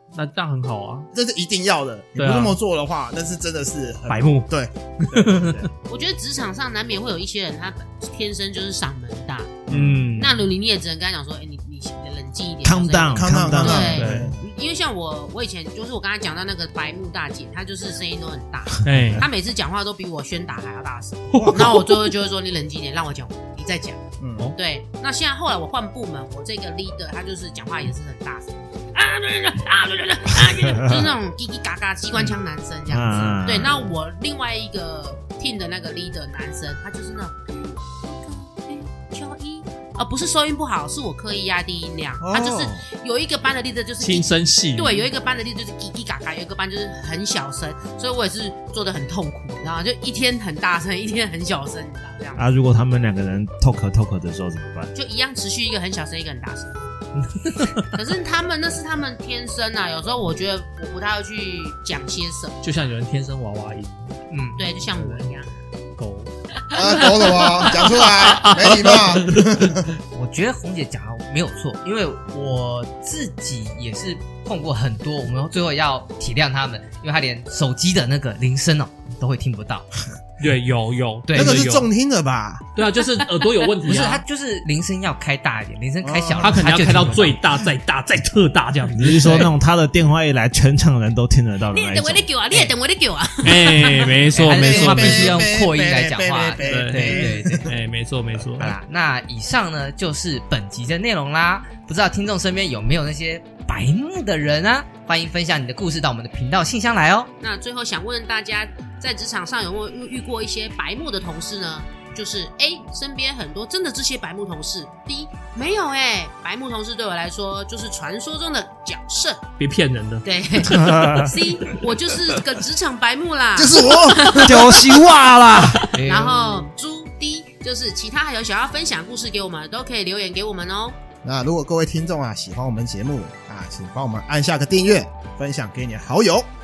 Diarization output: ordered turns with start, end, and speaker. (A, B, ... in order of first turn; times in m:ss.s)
0:00.1-0:01.1 A
0:01.1-0:05.7 B
0:02.2-0:02.6 A
0:04.1-0:04.5 A
0:05.1-0:05.6 A
0:05.9-0:09.5 C
0:09.7-0:10.1 B
0:09.7-0:10.4 A
0:10.2-0:52.4 C
0:12.6-0:14.0 D
0:13.1-0:14.4 B
0:13.6-0:14.3 A
0:18.8-0:19.2 A
0:21.3-0:21.9 B
0:24.2-0:24.5 B
0:30.4-0:31.2 D
0:32.9-0:33.9 D
0:42.2-0:42.8 B
0:44.0-0:45.1 A
0:52.4-0:54.9 D
0:54.9-0:56.9 C
0:57.9-1:02.6 C
1:02.6-1:04.2 A
1:04.3-1:04.7 E
1:04.6-1:05.6 C
1:04.9-1:05.3 A
1:06.0-1:06.3 A
1:06.7-1:07.8 C
1:06.7-1:09.9 B
1:07.3-1:09.7 A
1:10.1-1:19.9 E
1:20.4-1:21.9 A
1:21.3-1:21.7 E
1:21.3-1:22.6 B
1:22.8-1:24.2 A
1:23.8-1:27.4 E
1:26.0-1:26.9 B
1:26.4-1:29.2 A
1:29.0-1:32.3 D
1:29.1-1:29.5 E
1:31.7-1:34.2 C
1:33.4-1:35.5 A
1:34.3-1:37.7 E
1:34.4-1:37.7 B
1:36.6-1:38.8 A
1:38.6-1:47.3 E
1:47.4-1:59.4 C
1:59.6-2:01.1 A
2:00.2-2:11.0 C
2:00.7-2:01.4 D
2:03.6-2:04.6 B
2:04.4-2:05.8 D
2:05.9-2:06.7 E
2:11.2-2:16.5 B